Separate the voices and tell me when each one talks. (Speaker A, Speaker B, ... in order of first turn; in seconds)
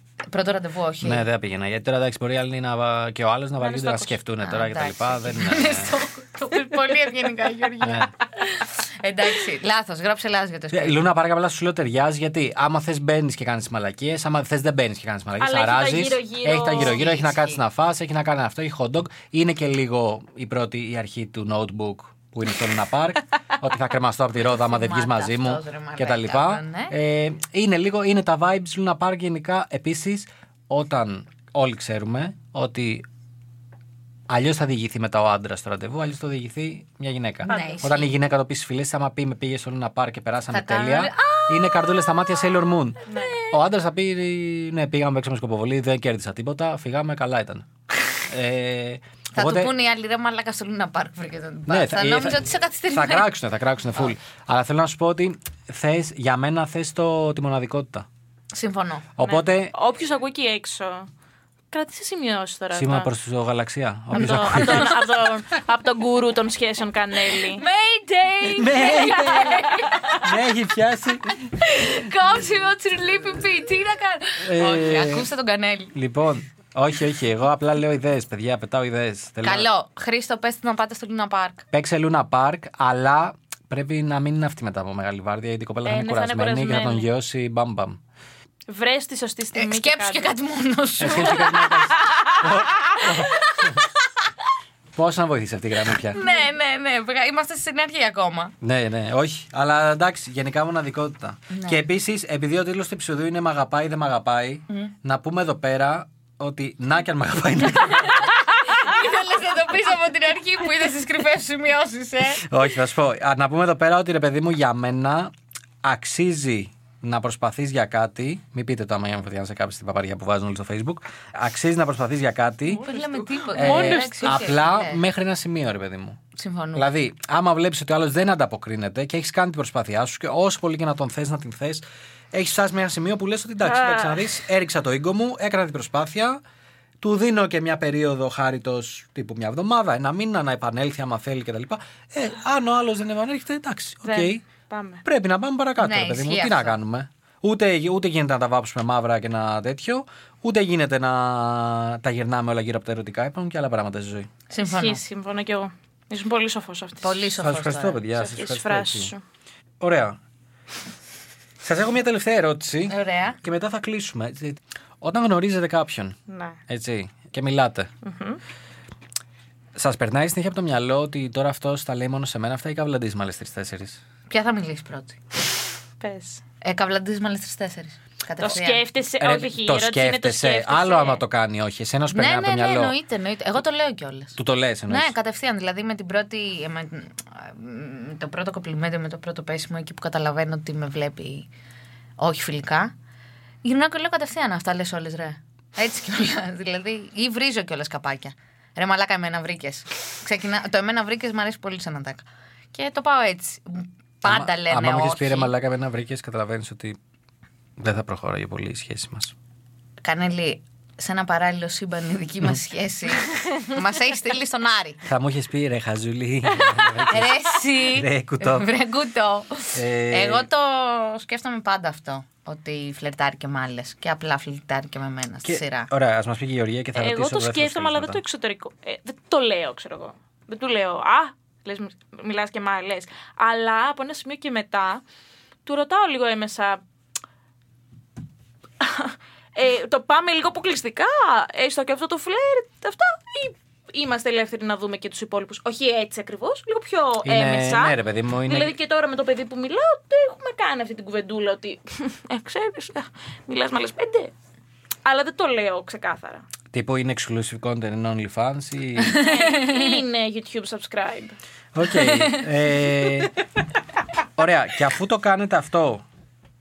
Speaker A: 0.3-1.2, 4.4-11.1, 16.6-17.6, 24.4-26.9, 37.5-38.1, 40.5-42.2, 43.1-43.5, 49.3-53.3, 58.5-59.1, 64.2-64.8, 67.5-70.3, 71.5-75.9, 79.4-81.6, 89.5-91.9, 92.5-93.7, 96.1-98.5, 101.5-101.8, 108.6-112.5, 122.8-125.0, 126.4-126.9, 145.8-146.7, 154.5-155.0, 157.0-158.0, 162.9-163.4, 174.3-175.2, 176.6-178.8, 182.1-184.3, 184.9-191.5, 192.2-192.9, 193.6-205.5, 210.0-215.0, 217.0-225.9, 259.1-260.0
Speaker B: 1.0-6.0, 7.8-8.1, 10.7-33.0, 34.3-47.7, 48.2-49.7, 51.7-58.1, 59.2-59.7, 62.7-65.0, 68.5-71.4, 74.4-75.3, 75.9-79.7, 81.7-88.0, 91.0-93.8, 94.9-96.2, 98.6-108.3, 112.4-115.3, 115.8-122.8, 123.6-126.2, 126.7-136.4, 137.0-144.4, 145.0-154.3, 157.4-159.1, 159.8-160.2, 161.6-167.9, 169.8-174.0, 179.2-182.9, 184.4-185.1, 204.2-207.0, 207.8-209.3, 215.1-218.7, 219.7-220.5, 225.4-228.2, 247.2-248.7, 256.7-259.2, 261.7-263.3, 264.4-266.0
Speaker C: 3.6-4.1, 15.4-17.0, 37.5-37.8, 59.2-61.1, 61.7-63.1, 64.1-67.6, 68.8-70.0, 85.8-87.1, 88.7-90.3, 91.4-92.4, 122.8-124.5, 133.6-134.3, 144.0-145.0, 154.7-157.3, 158.1-159.2, 166.3-166.6, 168.0-168.4, 176.0-176.4, 178.4-181.2, 226.9-235.0, 235.6-236.8, 238.8-254.3, 255.0-256.4, 259.1-261.4